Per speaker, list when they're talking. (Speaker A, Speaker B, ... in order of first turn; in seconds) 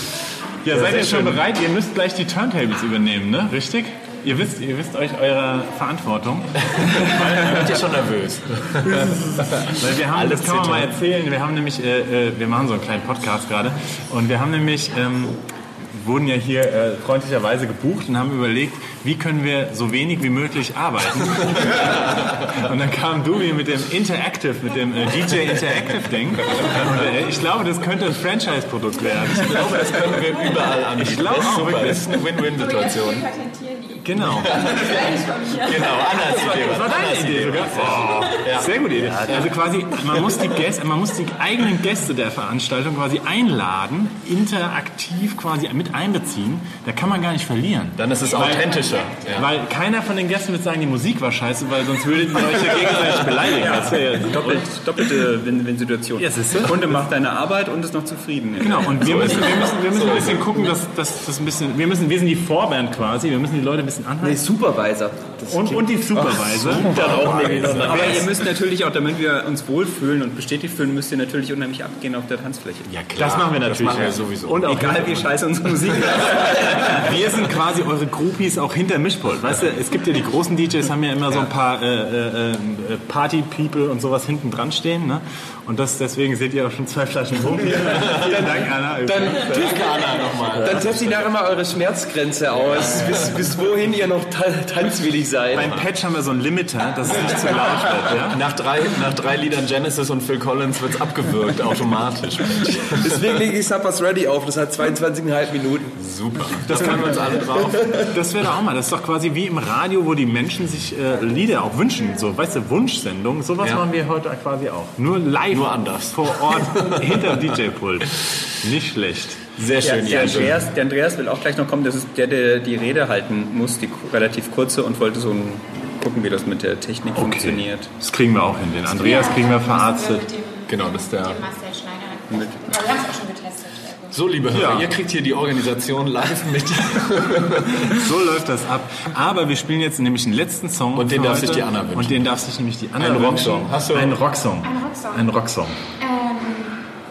Speaker A: 0.6-7.9, 8.8-30.2, 30.7-32.1, 34.0-34.7, 36.4-48.8, 49.3-54.7, 56.2-56.8, 58.6-64.5, 65.5-68.3, 73.1-75.4, 76.2-89.8, 95.5-98.4, 106.5-119.5, 120.1-120.5, 127.2-130.3, 134.5-134.9, 137.7-145.8
Speaker B: 0.7-1.4, 6.7-11.0, 29.3-33.3, 34.2-39.5, 48.0-49.5, 58.9-60.5, 66.7-68.2, 72.9-74.8, 87.8-88.5, 89.3-91.3, 95.6-95.9, 98.1-103.3, 106.0-107.9, 115.5-117.5, 119.6-120.7, 130.7-131.4, 134.1-138.1, 140.9-142.3, 143.0-144.2
Speaker C: 32.5-36.6, 128.9-134.2, 144.6-145.3, 146.0-146.8
Speaker D: 39.0-39.4, 64.2-68.1, 89.1-89.9, 90.6-95.7, 103.0-105.9
Speaker E: 53.6-59.2, 66.8-72.9, 74.5-77.0, 119.8-127.9, 132.3-132.6